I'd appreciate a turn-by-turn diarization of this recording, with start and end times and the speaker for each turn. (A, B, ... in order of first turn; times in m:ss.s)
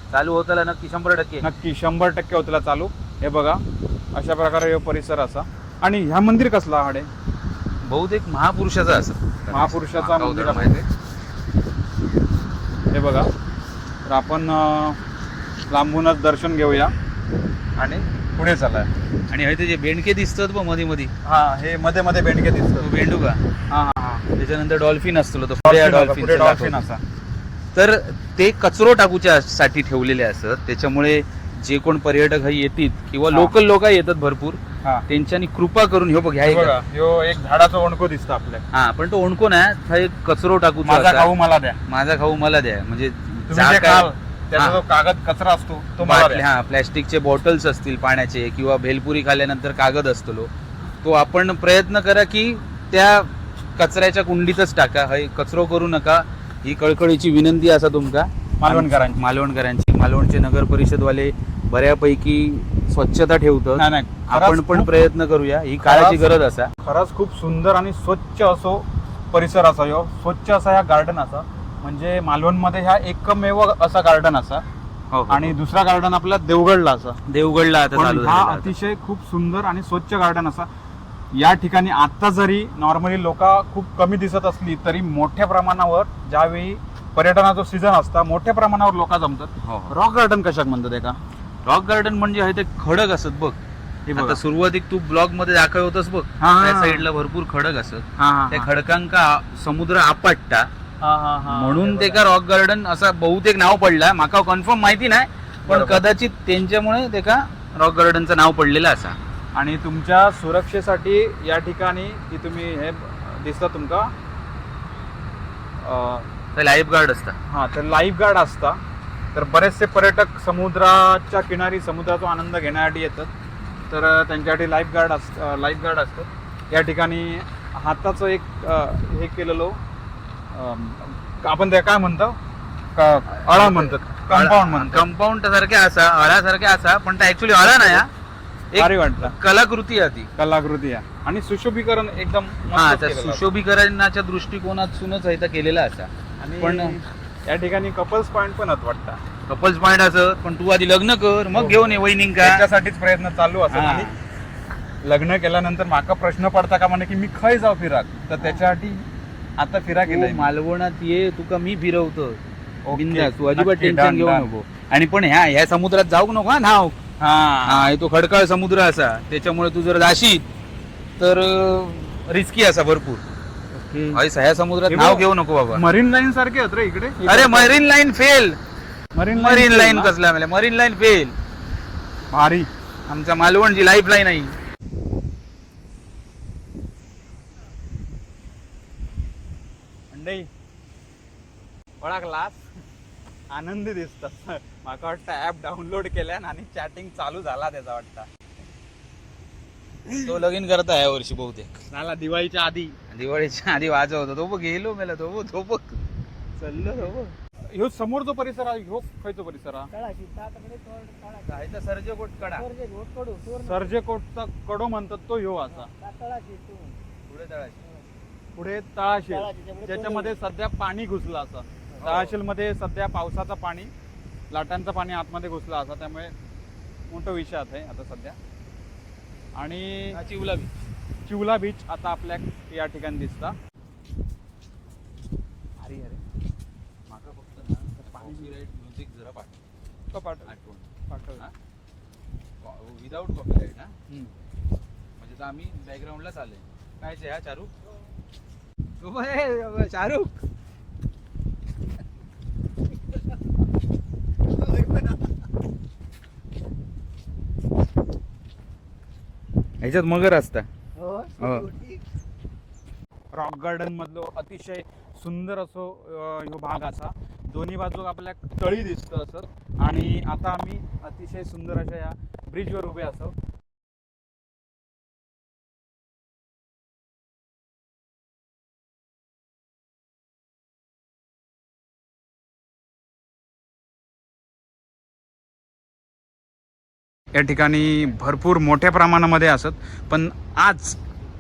0:00.1-0:01.4 A
0:01.4-0:03.6 B
0:04.1-0:07.1 B
0:07.8-0:10.8 A
0:09.5-0:10.9 B
0:12.9-0:13.3 B
0:14.0-0:15.0 B
0:15.7-0:16.9 B
0:17.8-0:18.9 B
0:19.3-0:21.1 A
0:21.2-0:22.9 B
0:22.8-0:23.4 A
0:23.7-0:24.2 B
0:24.4-0:26.8 A
0:25.6-0:27.0 B
0:27.7-0:36.8 A
0:36.4-0:38.6 B
0:38.7-0:41.3 A
0:40.8-0:41.8 B
0:41.9-0:44.8 A
0:43.5-0:46.4 B
0:46.0-0:50.5 A
0:51.0-1:06.7 A
0:58.6-0:59.2 B
1:03.8-1:04.9 B
1:05.8-1:06.3 B
1:06.8-1:14.6 B
1:15.1-1:15.6 A
1:15.3-1:17.2 B
1:17.3-1:18.7 A
1:17.9-1:20.7 B
1:21.3-1:31.2 B
1:29.6-1:29.9 A
1:31.6-1:33.6 A
1:34.1-1:34.4 B
1:34.1-1:40.7 A
1:36.4-1:37.0 B
1:38.2-1:38.7 B
1:41.0-1:42.2 B
1:41.5-1:49.2 A
1:45.7-1:46.0 B
1:49.5-1:54.1 B
1:55.8-1:56.3 B
1:56.5-1:57.3 A
1:57.5-1:58.8 B
1:59.3-2:03.3 B
2:03.9-2:09.8 B
2:10.5-2:12.3 B
2:12.9-2:15.1 B
2:13.5-2:18.1 A
2:17.7-2:18.0 B
2:18.7-2:20.3 A
2:18.7-2:19.4 B
2:20.4-2:23.4 B
2:22.7-2:27.0 A
2:26.4-2:29.2 B
2:29.5-2:32.6 A
2:31.5-2:34.1 B
2:33.7-2:34.1 A
2:35.0-2:39.0 B
2:39.6-2:40.5 B
2:40.0-2:42.4 A
2:42.8-2:44.5 B
2:42.9-2:47.0 A
2:47.2-2:47.9 B
2:47.6-2:50.4 A
2:51.2-2:53.2 A
2:53.7-2:54.2 B
2:54.1-2:55.8 A
2:54.9-2:57.8 B
2:57.2-2:58.6 A
2:59.1-3:00.1 B
2:59.3-3:01.3 A
3:02.3-3:02.7 B
3:03.1-3:04.6 A
3:10.1-3:10.5 B
3:12.0-3:12.6 B
3:13.5-3:18.3 B
3:20.1-3:20.4 B
3:20.2-3:21.8 A
3:21.9-3:22.9 B
3:23.1-3:26.0 A
3:26.6-3:27.3 A
3:27.7-3:29.9 B
3:29.9-3:31.5 C
3:31.4-3:32.6 A
3:32.6-3:33.9 C
3:33.6-3:35.9 B
3:35.8-3:36.9 C
3:37.3-3:37.8 A
3:38.5-3:43.9 B
3:39.3-3:40.3 C
3:42.0-3:42.4 A
3:44.5-3:46.3 B
3:47.1-3:48.4 B
3:49.5-3:50.2 B
3:50.1-3:50.7 A
3:51.2-3:53.5 B
3:55.8-3:56.2 B
3:57.1-3:59.5 A
3:58.0-3:58.5 B
4:00.1-4:00.5 B
4:00.4-4:01.5 A
4:01.1-4:01.4 B
4:02.6-4:04.0 A
4:05.2-4:07.7 A
4:09.0-4:10.3 A
4:19.8-4:20.6 A
4:21.0-4:22.0 C
4:21.4-4:21.7 A
4:23.3-4:33.3 B
4:47.3-4:51.0 B